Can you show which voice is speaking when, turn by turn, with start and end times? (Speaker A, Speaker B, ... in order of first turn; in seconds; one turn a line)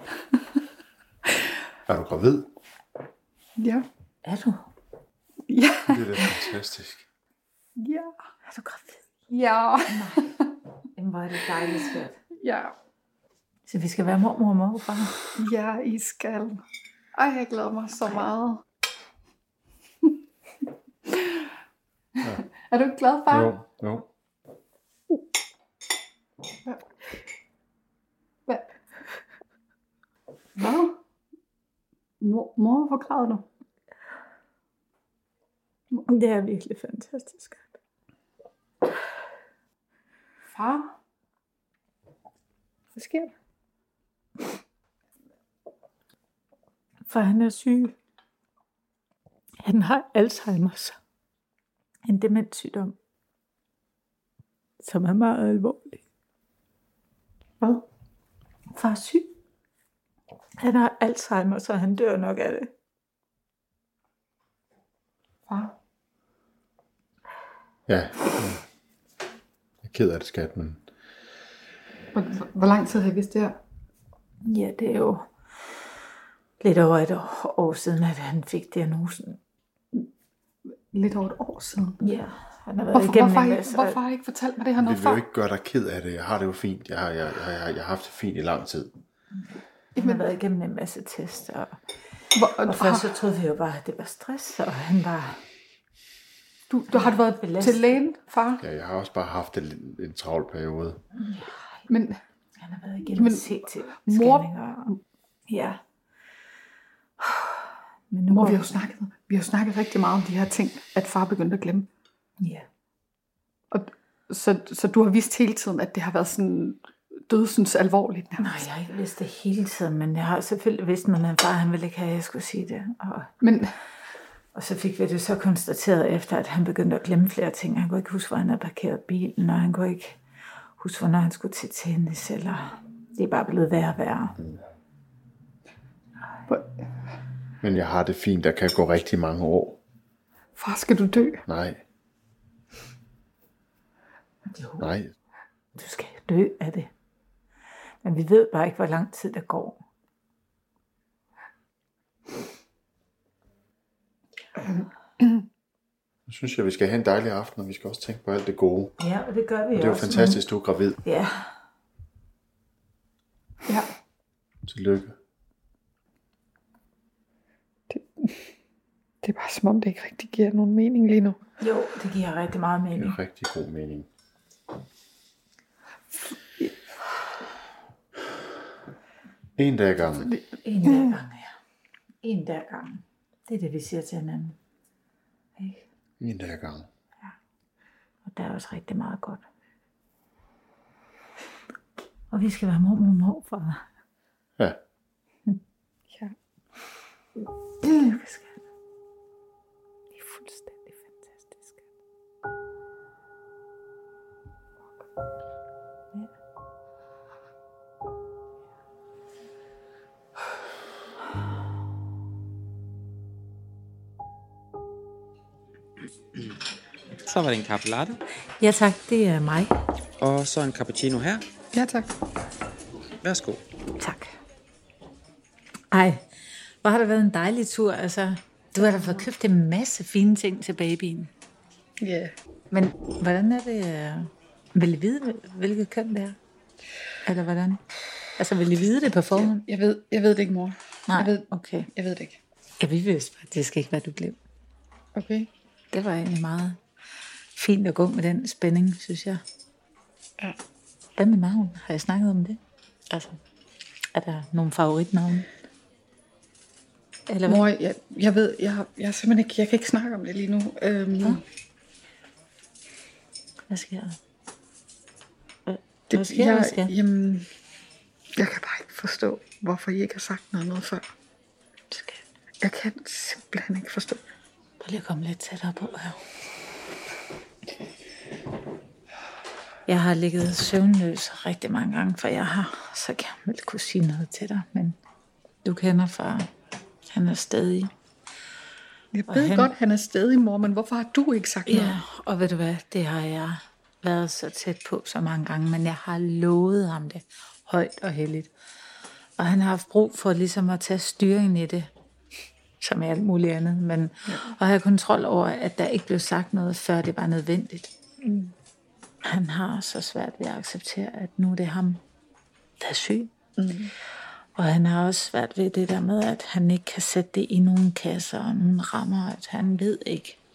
Speaker A: 1.9-2.5
Speaker B: 3.6-3.9
Speaker C: 4.2-4.7
Speaker B: 5.5-6.4
Speaker A: 5.9-7.0
Speaker B: 7.8-8.2
Speaker C: 8.4-9.0
Speaker B: 9.3-10.4
Speaker C: 9.9-10.3
Speaker C: 10.9-12.2
Speaker B: 12.4-12.7
Speaker C: 13.7-15.2
Speaker B: 15.3-16.6
Speaker B: 17.1-18.6
Speaker B: 21.1-21.5
Speaker B: 22.2-23.6
Speaker A: 23.3-24.0
Speaker B: 26.6-26.9
Speaker B: 28.5-28.7
Speaker B: 30.6-30.9
Speaker B: 32.2-33.5
Speaker C: 36.0-37.7
Speaker B: 40.5-40.9
Speaker B: 42.9-43.3
Speaker C: 47.1-47.9
Speaker C: 49.6-51.0
Speaker C: 52.0-53.0
Speaker C: 54.8-56.0
Speaker C: 58.7-59.3
Speaker C: 60.6-62.7
Speaker B: 65.5-65.7
Speaker A: 67.9-68.6
Speaker A: 69.8-70.8
Speaker B: 72.1-73.6
Speaker C: 74.4-75.2
Speaker C: 76.6-79.4
Speaker B: 80.9-82.0
Speaker C: 82.0-84.0
Speaker B: 82.9-85.2
Speaker A: 84.8-88.9
Speaker B: 90.0-90.3
Speaker C: 90.0-91.8
Speaker B: 92.3-93.1
Speaker C: 92.6-95.4
Speaker B: 96.7-98.6
Speaker C: 96.9-98.0
Speaker A: 98.6-101.0
Speaker C: 101.2-101.8
Speaker B: 101.9-102.2
Speaker C: 102.6-104.9
Speaker B: 103.1-105.0
Speaker C: 105.5-105.8
Speaker C: 107.2-108.8
Speaker B: 108.3-111.9
Speaker C: 112.4-112.7
Speaker B: 113.7-118.6
Speaker C: 118.4-123.3
Speaker B: 123.4-123.7
Speaker C: 124.5-130.2
Speaker C: 130.8-134.3
Speaker B: 136.5-136.8
Speaker A: 137.6-139.8
Speaker B: 140.6-141.4
Speaker A: 141.5-141.8
Speaker C: 144.5-144.9
Speaker A: 144.8-145.1
Speaker C: 145.8-146.9
Speaker C: 148.0-149.8
Speaker B: 154.6-155.4
Speaker A: 156.3-158.9
Speaker C: 159.0-160.4
Speaker A: 159.7-161.0
Speaker C: 161.0-161.5
Speaker A: 164.6-165.2
Speaker B: 167.9-168.4
Speaker B: 169.2-171.4
Speaker C: 171.6-173.2
Speaker A: 172.9-174.1
Speaker A: 179.6-180.3
Speaker C: 180.6-181.5
Speaker C: 182.2-184.6
Speaker C: 185.6-185.8
Speaker A: 186.2-186.9
Speaker C: 188.2-189.4
Speaker C: 192.3-193.8
Speaker C: 197.8-198.6
Speaker C: 200.1-201.8
Speaker D: 217.2-218.2
Speaker C: 218.6-219.7
Speaker D: 220.2-221.4
Speaker B: 221.7-222.1
Speaker D: 223.2-223.6
Speaker C: 224.0-224.3
Speaker C: 225.9-226.2
Speaker C: 226.8-231.3
Speaker B: 228.8-229.2
Speaker B: 232.0-232.3
Speaker C: 232.7-236.4
Speaker C: 237.2-237.8
Speaker C: 238.4-239.6
Speaker B: 239.3-242.4
Speaker C: 241.1-241.9
Speaker C: 242.8-244.4
Speaker B: 245.1-245.5
Speaker C: 245.9-246.8
Speaker C: 247.5-249.4
Speaker C: 251.2-253.4
Speaker C: 254.1-255.5
Speaker C: 257.3-257.7
Speaker B: 257.5-261.4
Speaker C: 263.7-264.2
Speaker C: 265.7-266.9
Speaker B: 266.1-267.5
Speaker B: 268.4-271.1
Speaker C: 271.9-272.2
Speaker B: 272.6-274.3
Speaker C: 274.8-276.2
Speaker C: 279.9-285.0
Speaker C: 285.6-286.5
Speaker C: 287.1-287.9
Speaker B: 289.1-292.0
Speaker C: 289.3-289.7
Speaker C: 291.7-298.5
Speaker C: 299.4-301.9
Speaker C: 302.8-307.9
Speaker C: 309.2-312.0
Speaker C: 312.8-313.3
Speaker B: 313.6-313.9
Speaker C: 314.6-320.4